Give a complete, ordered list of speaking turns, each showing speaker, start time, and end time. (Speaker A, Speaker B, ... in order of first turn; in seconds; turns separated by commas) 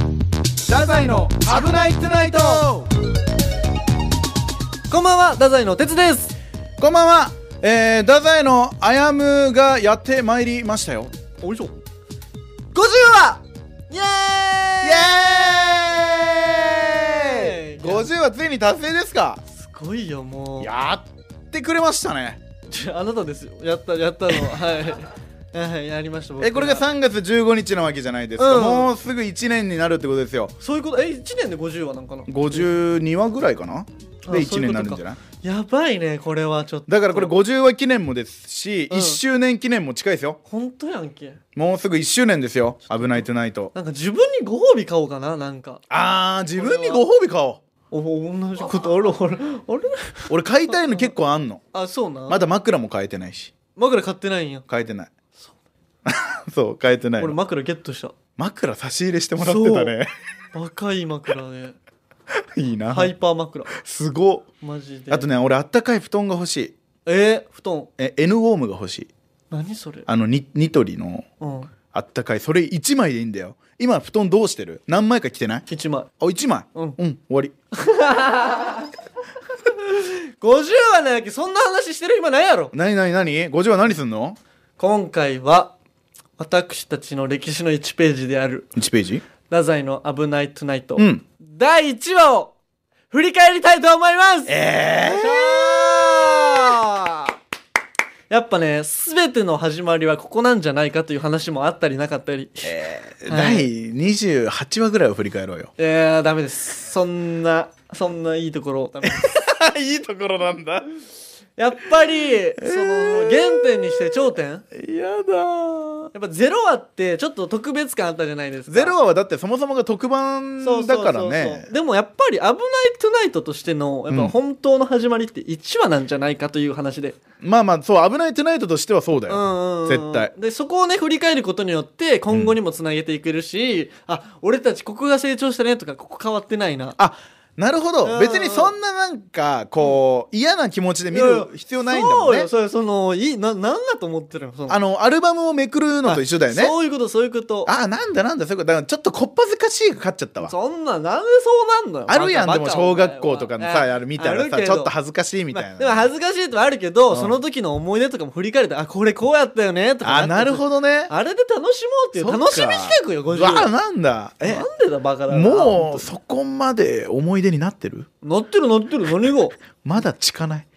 Speaker A: 0.7-2.9, Speaker B: 4.9-6.3, Speaker A: 6.8-11.1, Speaker B: 11.4-11.8, Speaker B: 12.7-15.8, Speaker A: 14.8-19.4, Speaker B: 16.8-18.1, Speaker B: 19.5-20.7, Speaker A: 20.6-22.4, Speaker B: 22.7-26.9, Speaker A: 26.4-30.5, Speaker B: 28.4-28.9, Speaker B: 30.6-32.7, Speaker A: 32.3-35.2, Speaker B: 34.3-37.4, Speaker A: 36.9-40.4, Speaker B: 38.9-39.2, Speaker B: 40.5-41.4, Speaker A: 41.5-43.7, Speaker B: 42.9-45.8, Speaker A: 45.9-47.6, Speaker B: 46.6-47.0, Speaker B: 47.9-51.1, Speaker A: 50.3-51.6, Speaker B: 51.7-52.4, Speaker A: 52.3-53.5, Speaker B: 53.8-54.7, Speaker A: 54.7-55.1, Speaker A: 56.1-57.4, Speaker B: 57.2-58.1, Speaker A: 58.4-60.1, Speaker B: 59.4-60.0, Speaker B: 60.5-61.8, Speaker A: 62.5-63.1, Speaker B: 62.9-63.7, Speaker A: 63.7-64.5, Speaker B: 64.6-65.3, Speaker A: 65.1-66.7, Speaker B: 67.1-67.9, Speaker A: 68.0-69.1, Speaker B: 69.5-70.1, Speaker A: 70.1-71.3, Speaker B: 71.4-71.7, Speaker A: 71.9-75.7, Speaker B: 75.7-76.1, Speaker A: 76.2-77.5, Speaker B: 77.7-78.9, Speaker B: 79.7-82.7, Speaker A: 82.7-84.4, Speaker B: 84.8-85.7, Speaker B: 86.4-88.7, Speaker A: 88.8-89.2, Speaker B: 89.5-92.5, Speaker A: 91.0-91.2, Speaker B: 93.1-97.4, Speaker A: 94.5-96.6, Speaker B: 98.3-102.7, Speaker A: 102.6-105.7, Speaker B: 103.3-103.7, Speaker B: 105.8-109.3, Speaker A: 109.1-110.9, Speaker B: 111.6-114.7, Speaker A: 112.6-114.2, Speaker A: 114.7-116.1, Speaker B: 116.1-119.0, Speaker A: 118.7-121.7, Speaker B: 120.6-127.2, Speaker A: 124.1-124.3, Speaker A: 127.4-130.3, Speaker B: 129.3-137.0, Speaker A: 132.3-132.6, Speaker A: 137.0-142.5, Speaker B: 138.0-138.7, Speaker B: 141.1-144.8, Speaker A: 144.7-146.8, Speaker B: 146.0-147.7, Speaker A: 147.7-150.5, Speaker B: 150.4-154.9, Speaker A: 152.1-156.1, Speaker B: 155.5-163.7, Speaker A: 157.1-157.4, Speaker A: 160.0-161.1, Speaker A: 162.2-164.7, Speaker B: 164.4-166.1, Speaker A: 165.3-168.1, Speaker B: 168.2-169.6, Speaker A: 169.8-170.7